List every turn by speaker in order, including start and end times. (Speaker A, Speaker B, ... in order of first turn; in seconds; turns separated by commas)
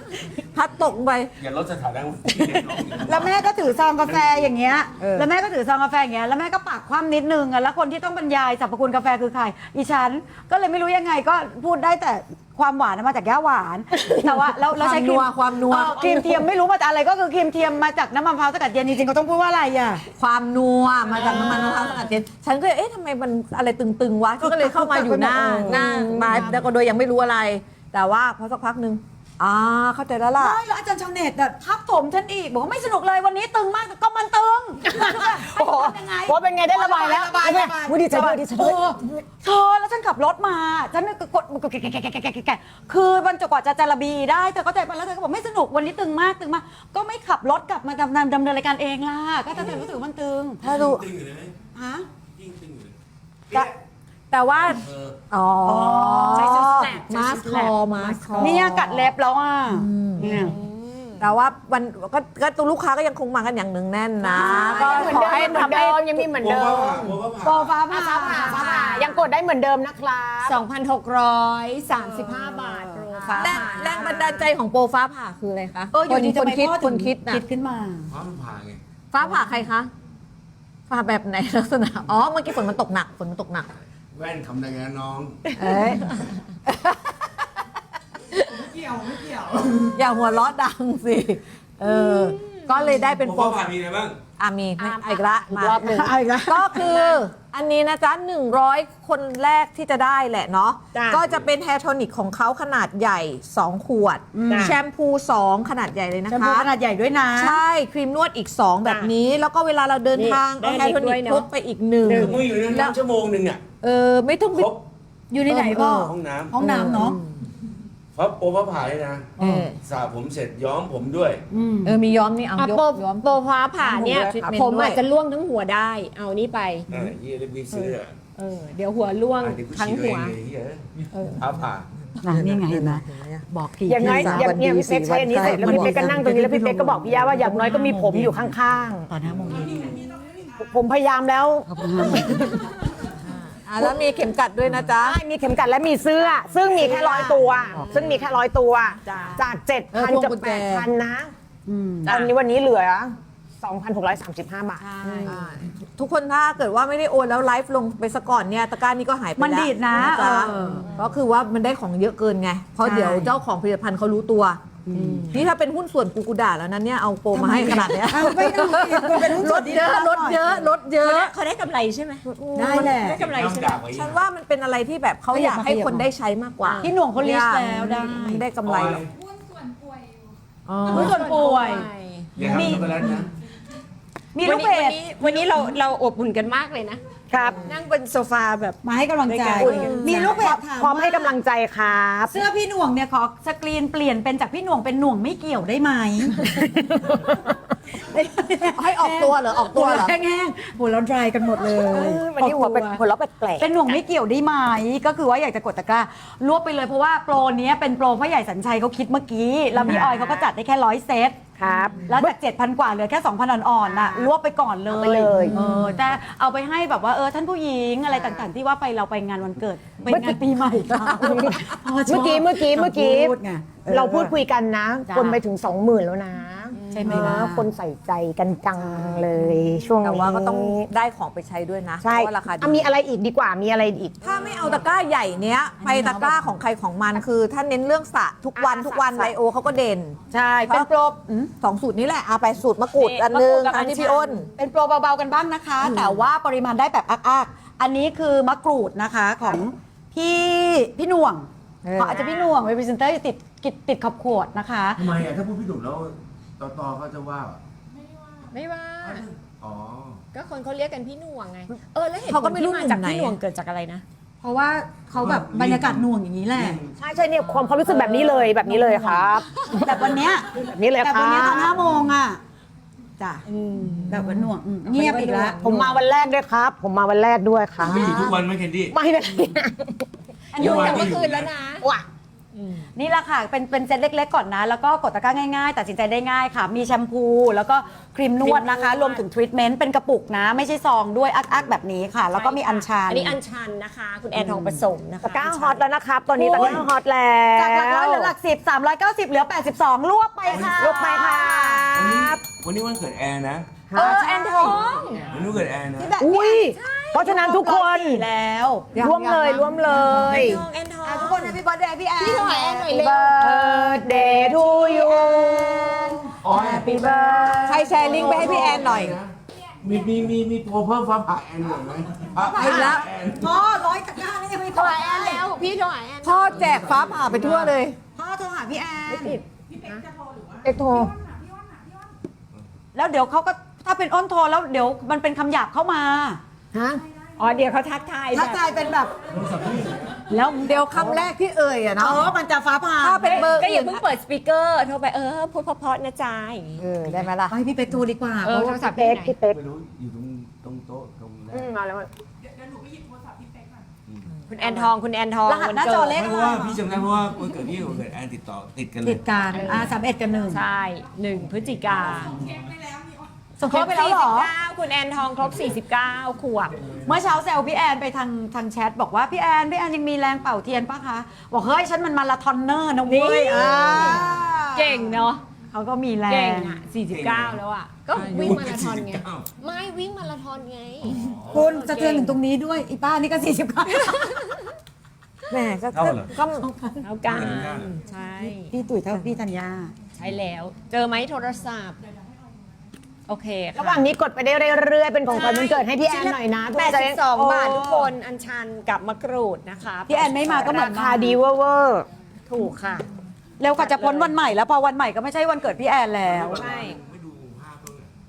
Speaker A: 0.4-1.3, Speaker B: 1.4-4.5, Speaker C: 3.0-20.0, Speaker A: 5.0-5.3, Speaker A: 14.0-16.5, Speaker A: 20.1-30.6, Speaker C: 21.1-22.1, Speaker C: 24.4-26.5, Speaker D: 25.6-26.6, Speaker C: 30.4-50.6, Speaker D: 34.9-38.9, Speaker B: 49.5-49.9, Speaker A: 50.6-51.0, Speaker B: 50.6-51.5, Speaker C: 51.7-52.1, Speaker B: 52.4-52.9, Speaker C: 54.3-54.8, Speaker B: 54.8-55.2, Speaker A: 55.3-59.1, Speaker C: 55.6-56.6, Speaker E: 56.3-58.7, Speaker C: 58.4-60.5, Speaker A: 59.7-60.4, Speaker E: 60.2-61.2, Speaker A: 61.2-66.3, Speaker C: 64.3-65.7, Speaker D: 64.3-67.2, Speaker E: 64.3-65.7, Speaker B: 66.3-67.9, Speaker C: 67.4-69.2, Speaker D: 67.9-70.6, Speaker E: 68.1-69.2, Speaker E: 70.4-74.5, Speaker C: 72.3-73.9, Speaker A: 73.4-77.4, Speaker C: 75.9-78.1, Speaker B: 78.1-78.8, Speaker A: 79.1-79.9, Speaker A: 80.9-83.7, Speaker B: 84.1-85.5, Speaker C: 85.6-86.0, Speaker A: 85.6-86.0, Speaker A: 86.7-87.3, Speaker C: 88.7-89.8, Speaker A: 89.9-93.7, Speaker E: 91.8-92.7, Speaker B: 93.2-94.2, Speaker A: 94.4-106.7, Speaker E: 94.8-95.2, Speaker D: 95.5-96.1, Speaker C: 95.8-96.8, Speaker E: 96.7-97.2, Speaker E: 100.9-101.2, Speaker C: 104.3-104.8, Speaker E: 104.5-104.7, Speaker C: 106.3-107.6, Speaker A: 107.3-112.9, Speaker E: 108.8-109.1, Speaker E: 110.1-111.5, Speaker E: 112.0-112.4, Speaker B: 112.1-113.6, Speaker A: 113.8-114.7, Speaker B: 114.5-114.8, Speaker C: 115.3-117.2, Speaker A: 115.5-116.1, Speaker B: 116.0-116.5, Speaker A: 116.6-117.2, Speaker B: 118.1-121.4, Speaker A: 119.4-119.7, Speaker E: 119.4-119.7, Speaker C: 121.5-122.0, Speaker A: 121.8-125.0, Speaker E: 122.6-126.9, Speaker B: 126.9-128.1, Speaker E: 128.4-130.3, Speaker B: 129.4-131.9, Speaker E: 131.1-131.4, Speaker C: 132.2-134.6, Speaker A: 132.2-136.6, Speaker D: 133.9-139.1, Speaker C: 135.3-138.5, Speaker C: 139.1-140.0, Speaker B: 139.2-140.0, Speaker D: 140.4-142.6, Speaker C: 141.7-142.6, Speaker A: 143.2-145.2, Speaker D: 145.0-151.3, Speaker E: 146.9-147.3, Speaker C: 147.0-147.3, Speaker A: 147.0-147.9, Speaker E: 149.1-149.4, Speaker A: 149.9-150.9, Speaker C: 151.7-152.1, Speaker E: 152.0-152.3, Speaker D: 152.1-155.3, Speaker C: 154.8-155.4, Speaker A: 155.2-164.6, Speaker C: 159.4-160.9, Speaker E: 160.4-160.8, Speaker C: 162.8-163.3, Speaker C: 164.9-165.3, Speaker A: 165.3-171.3, Speaker C: 167.3-170.7, Speaker E: 170.9-173.8, Speaker A: 172.2-173.0, Speaker C: 172.5-173.2, Speaker B: 173.1-174.2, Speaker A: 173.9-179.0, Speaker C: 175.3-176.1, Speaker E: 176.6-176.9, Speaker C: 176.8-178.4, Speaker E: 177.8-178.4, Speaker B: 178.6-179.1, Speaker A: 180.7-181.3, Speaker C: 180.9-181.9, Speaker E: 180.9-182.3, Speaker B: 182.3-183.3, Speaker C: 182.4-183.3, Speaker C: 184.3-185.0, Speaker E: 184.4-190.4, Speaker D: 187.3-187.7, Speaker C: 188.8-191.4, Speaker D: 189.6-192.4, Speaker A: 189.6-190.3, Speaker C: 192.3-196.6, Speaker C: 198.0-203.0, Speaker A: 198.7-200.1, Speaker D: 201.6-203.7, Speaker C: 203.6-224.3, Speaker D: 209.8-210.3, Speaker D: 211.6-212.3, Speaker D: 213.9-214.3, Speaker D: 214.9-215.6, Speaker A: 215.5-215.9, Speaker D: 218.1-218.4, Speaker D: 220.1-223.3, Speaker A: 223.9-224.2, Speaker D: 223.9-230.9, Speaker C: 225.1-225.4, Speaker C: 226.9-227.7, Speaker E: 227.1-227.3, Speaker A: 230.0-232.9, Speaker D: 232.0-234.5, Speaker A: 234.2-240.9, Speaker C: 235.8-236.4, Speaker E: 238.6-239.3, Speaker C: 240.3-241.5, Speaker A: 241.6-244.5, Speaker E: 242.9-244.4, Speaker C: 244.6-255.1, Speaker A: 251.8-252.2, Speaker E: 252.1-252.5, Speaker B: 254.9-257.6, Speaker E: 258.5-259.2, Speaker B: 259.0-260.2, Speaker E: 260.3-264.0, Speaker A: 262.2-263.4, Speaker C: 264.4-266.8, Speaker B: 265.1-267.0, Speaker D: 267.0-271.8, Speaker E: 267.5-268.5, Speaker C: 268.6-272.4, Speaker B: 271.6-272.1, Speaker C: 273.2-273.4, Speaker E: 273.5-274.1, Speaker C: 274.1-275.6, Speaker E: 274.9-276.0, Speaker D: 275.6-278.4, Speaker B: 277.8-278.9, Speaker D: 278.9-280.0, Speaker C: 280.5-281.1, Speaker B: 280.6-281.5, Speaker E: 280.6-281.9, Speaker E: 282.5-282.8, Speaker C: 282.9-293.4, Speaker E: 288.4-289.2, Speaker E: 292.3-295.8, Speaker D: 295.2-298.3, Speaker C: 296.4-296.9, Speaker B: 296.5-296.8, Speaker C: 297.5-301.9, Speaker B: 300.4-300.9, Speaker D: 300.7-302.4, Speaker E: 301.5-301.8, Speaker B: 301.9-303.8, Speaker D: 303.9-304.2, Speaker E: 303.9-305.2, Speaker C: 304.0-305.2, Speaker B: 305.3-306.2, Speaker C: 305.9-306.6, Speaker D: 306.2-308.3, Speaker E: 306.5-307.4, Speaker C: 307.2-318.8, Speaker A: 308.9-310.2, Speaker D: 308.9-310.6, Speaker E: 310.0-311.6, Speaker E: 312.2-315.9, Speaker D: 312.3-316.2, Speaker B: 316.4-316.9, Speaker E: 316.6-318.3, Speaker A: 317.6-319.2, Speaker B: 318.0-323.6, Speaker C: 322.4-325.5, Speaker A: 322.6-323.1, Speaker E: 324.7-326.7, Speaker A: 326.2-328.0, Speaker B: 326.7-327.3, Speaker C: 328.1-329.4, Speaker E: 329.1-330.0, Speaker D: 330.6-331.1, Speaker C: 332.9-336.4, Speaker D: 336.7-337.0, Speaker E: 337.4-338.7, Speaker C: 338.3-339.2, Speaker B: 339.3-340.3, Speaker C: 340.3-341.1, Speaker A: 340.4-342.3, Speaker C: 342.0-343.6, Speaker A: 343.0-344.0, Speaker E: 343.2-346.8, Speaker A: 346.8-347.5, Speaker C: 347.5-348.8, Speaker E: 348.4-349.4, Speaker D: 348.7-349.6, Speaker B: 349.5-351.7, Speaker D: 351.5-352.1, Speaker B: 354.1-354.3, Speaker E: 354.5-356.2, Speaker C: 355.4-356.8, Speaker B: 356.1-359.2, Speaker C: 359.0-360.6, Speaker E: 359.5-360.0, Speaker E: 360.5-362.4, Speaker B: 361.9-362.7, Speaker C: 363.6-364.5, Speaker E: 363.7-366.8, Speaker B: 366.8-367.2, Speaker C: 367.1-375.0, Speaker E: 373.1-375.4, Speaker A: 373.6-375.0, Speaker C: 375.7-376.8, Speaker E: 376.3-382.4, Speaker B: 377.1-377.6, Speaker B: 378.1-379.5, Speaker B: 381.0-381.7, Speaker C: 381.5-384.4, Speaker E: 383.9-384.7, Speaker A: 385.5-387.0, Speaker B: 385.9-386.3, Speaker E: 387.0-388.7, Speaker B: 387.2-388.0, Speaker C: 388.4-389.9, Speaker E: 390.1-392.0, Speaker E: 393.3-394.1, Speaker D: 393.7-398.1, Speaker E: 395.3-400.9, Speaker C: 400.1-401.4, Speaker D: 400.5-402.9, Speaker E: 402.8-403.0, Speaker C: 403.6-406.6, Speaker E: 403.7-404.4, Speaker B: 406.2-408.1, Speaker E: 406.6-407.0